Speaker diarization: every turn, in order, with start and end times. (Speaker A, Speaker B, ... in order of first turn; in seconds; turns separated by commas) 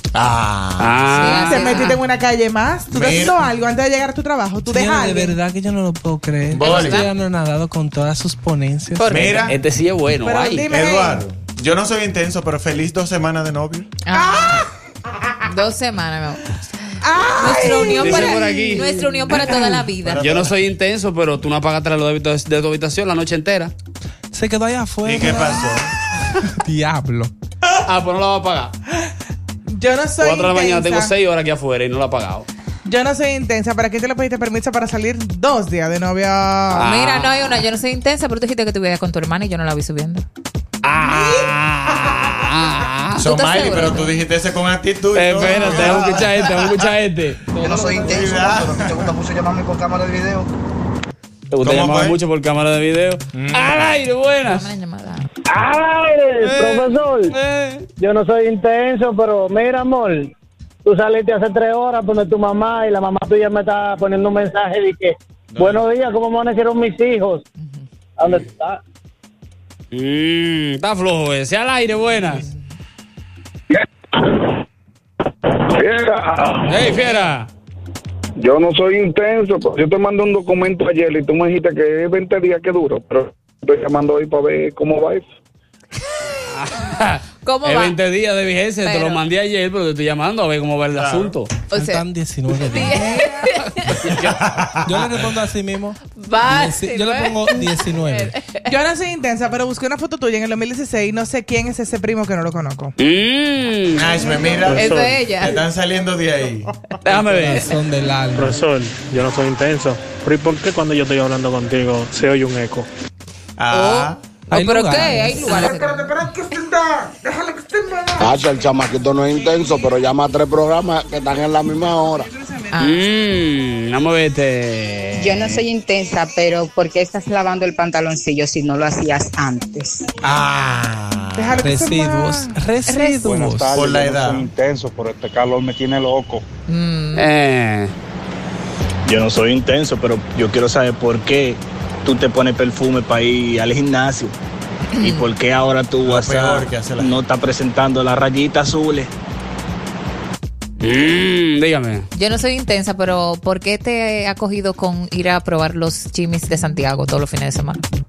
Speaker A: 0.1-1.3, Speaker B: 0.8-2.0, Speaker C: 1.1-2.0, Speaker D: 1.3-5.3, Speaker A: 2.9-3.5, Speaker E: 4.7-9.2, Speaker A: 6.5-7.1, Speaker C: 6.6-7.1, Speaker C: 9.0-9.5, Speaker A: 9.1-9.6, Speaker B: 9.5-10.7, Speaker D: 10.2-11.2, Speaker A: 10.7-13.9, Speaker C: 14.1-14.6, Speaker D: 14.1-14.7, Speaker C: 15.5-16.4, Speaker D: 17.0-18.8, Speaker C: 17.4-20.2, Speaker B: 17.9-19.6, Speaker A: 20.0-20.6, Speaker B: 20.2-23.7, Speaker E: 24.3-25.8, Speaker A: 25.0-25.9, Speaker E: 26.5-27.3, Speaker B: 27.8-28.7, Speaker D: 29.7-31.1, Speaker B: 30.2-32.5, Speaker D: 32.9-36.8, Speaker C: 36.7-40.2, Speaker B: 36.7-37.6, Speaker B: 40.8-43.2, Speaker D: 41.0-41.5, Speaker A: 43.2-46.8, Speaker C: 43.3-44.2, Speaker B: 45.1-47.5, Speaker F: 47.6-50.5, Speaker E: 47.7-48.1, Speaker A: 48.0-49.1, Speaker B: 51.5-54.7, Speaker A: 51.6-52.2, Speaker A: 53.3-54.0, Speaker C: 54.5-55.3, Speaker G: 55.5-57.2, Speaker B: 56.4-57.9, Speaker G: 58.0-60.3, Speaker G: 60.9-65.1, Speaker A: 65.5-65.8, Speaker G: 65.8-67.4, Speaker G: 68.2-68.8, Speaker B: 69.9-72.5, Speaker B: 76.7-77.5, Speaker D: 78.4-83.2, Speaker H: 78.5-83.1, Speaker H: 83.7-85.2, Speaker B: 86.5-91.5, Speaker C: 87.4-88.0, Speaker C: 88.8-89.2, Speaker A: 90.9-91.4, Speaker C: 91.7-93.9, Speaker E: 91.7-93.1, Speaker D: 93.0-93.5, Speaker B: 93.9-94.3, Speaker A: 94.1-95.1, Speaker E: 94.8-98.4, Speaker C: 96.2-98.7, Speaker D: 98.7-103.0, Speaker B: 103.0-104.1, Speaker A: 104.0-106.7, Speaker D: 104.2-104.7, Speaker C: 104.7-105.6, Speaker I: 104.8-105.1, Speaker B: 107.0-107.7, Speaker E: 107.3-108.6, Speaker I: 108.4-112.8, Speaker A: 113.6-114.2, Speaker C: 113.7-116.1, Speaker E: 114.5-115.5, Speaker D: 115.5-118.3, Speaker J: 118.2-122.3, Speaker D: 122.4-122.8, Speaker C: 122.7-123.0, Speaker B: 122.8-125.6, Speaker K: 125.2-130.0, Speaker A: 130.2-131.5, Speaker D: 131.4-133.1, Speaker E: 131.6-133.8, Speaker H: 133.2-136.4, Speaker A: 133.7-134.5, Speaker C: 136.7-137.3, Speaker B: 137.2-137.9, Speaker L: 139.1-144.3, Speaker C: 145.0-145.3, Speaker L: 145.0-149.1, Speaker A: 146.0-147.2, Speaker B: 150.8-152.1, Speaker C: 152.2-157.8